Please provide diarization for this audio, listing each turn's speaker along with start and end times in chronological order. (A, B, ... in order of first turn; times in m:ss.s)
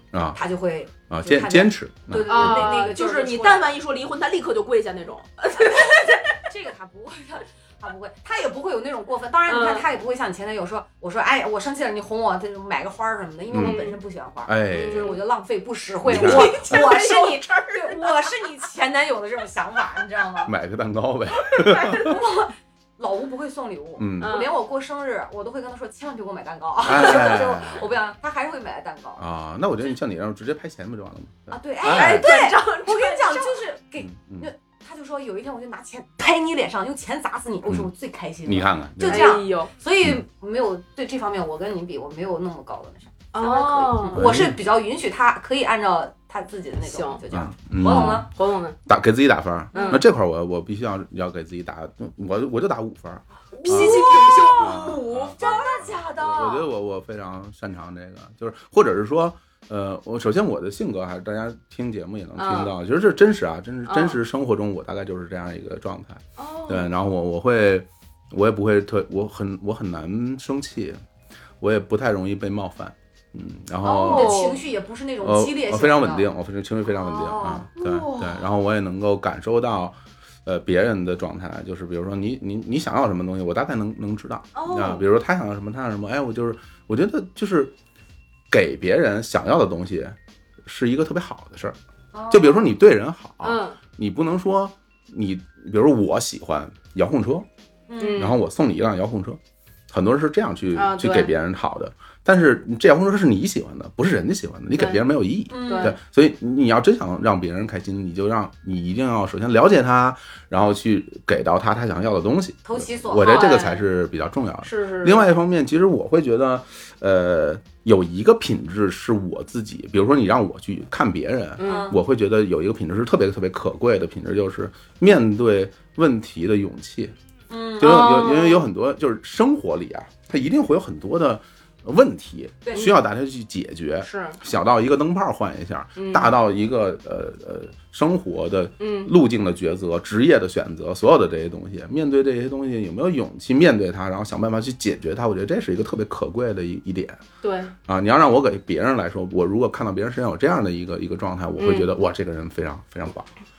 0:00.1-0:00.4 A
0:00.3-0:03.7 B
0:01.1-0:02.8 A
0:02.3-0:06.4 C
0:05.6-0:20.5 B
0:09.5-0:09.9 C
0:13.5-0:13.8 A
0:13.6-0:14.0 C
0:14.5-0:15.1 A
0:14.7-0:15.2 C
0:16.0-0:16.9 A
0:16.1-0:18.3 C
0:20.5-0:22.2 A
0:21.5-0:22.2 C
0:21.9-0:29.2 B
0:24.0-0:24.4 A
0:24.2-0:24.5 C
0:26.8-0:27.9 A
0:29.2-0:32.3 A
0:31.5-0:48.3 B
0:31.8-0:33.6 C
0:34.0-0:34.5 A
0:38.5-0:39.3 A
0:39.1-0:39.7 C
0:43.3-0:44.2 C
0:44.1-0:44.6 A
0:46.8-0:47.2 C
0:47.3-0:48.3 A
0:47.8-0:48.8 C
0:48.9-1:11.0 A
0:49.7-0:50.0 B
0:49.7-0:50.0 C
0:53.5-0:55.9 C
0:53.7-0:56.7 B
1:02.4-1:02.7 C
1:03.9-1:04.2 C
1:06.4-1:06.9 C
1:11.6-1:14.4 A
1:13.8-1:16.3 B
1:14.0-1:14.6 C
1:15.2-1:27.7 A
1:16.9-1:17.7 B
1:17.8-1:18.5 C
1:24.6-1:25.0 C
1:28.5-1:31.8 A
1:32.1-1:32.7 B
1:32.3-1:37.5 A
1:33.4-1:33.8 C
1:37.9-1:38.3 B
1:38.0-1:38.4 C
1:38.2-1:39.4 A
1:39.9-2:07.1 A
1:40.7-1:41.3 C
1:44.7-1:45.0 C
1:45.5-1:46.0 B
1:45.5-1:46.0 C
1:52.6-1:53.8 B
1:53.2-1:53.8 C
1:54.6-1:55.3 C
2:01.6-2:01.9 C
2:01.6-2:02.0 B
2:07.5-2:08.5 B
2:07.8-2:27.2 A
2:07.8-2:08.7 C
2:12.6-2:12.9 B
2:14.0-2:14.4 C
2:16.0-2:16.4 C
2:18.8-2:19.1 C
2:27.4-2:27.7 C
2:27.9-2:33.3 A
2:31.6-2:31.9 C